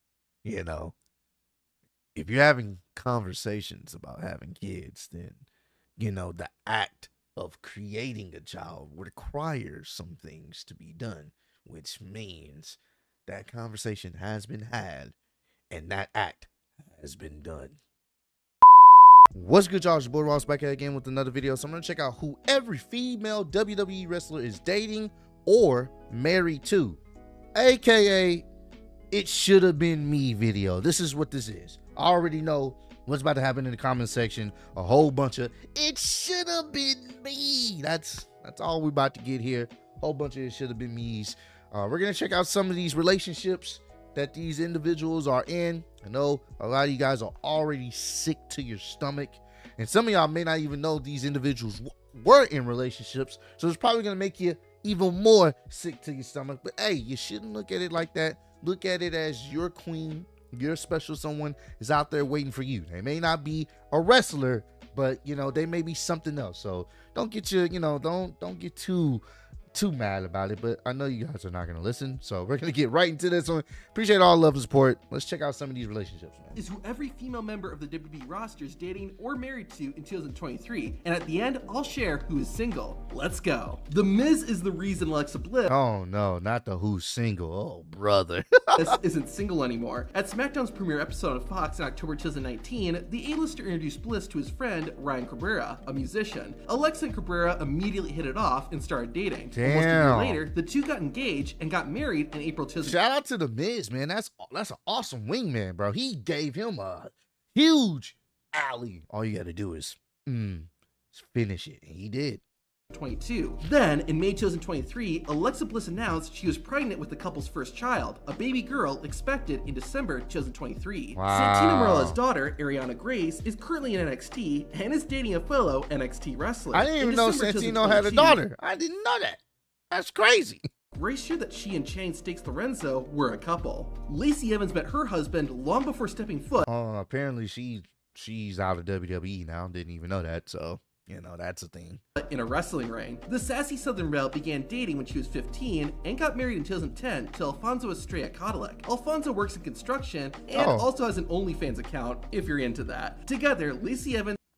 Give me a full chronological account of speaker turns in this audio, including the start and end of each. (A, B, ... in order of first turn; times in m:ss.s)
0:00.4-0:01.0 A
0:02.2-0:05.5 A
0:06.0-0:15.2 A
0:15.7-0:17.8 A
0:19.3-0:27.0 A
0:27.6-0:28.5 A
0:29.1-1:16.6 A
1:16.6-1:25.7 B
1:25.7-1:29.0 A
1:28.8-1:43.0 B
1:39.5-1:40.4 A
1:42.8-1:52.4 A
1:52.9-2:08.4 B
2:01.2-2:02.2 A
2:06.7-2:10.7 A
2:10.9-2:16.7 B
2:16.6-2:22.0 A
2:22.2-2:34.4 B
2:30.5-2:30.9 A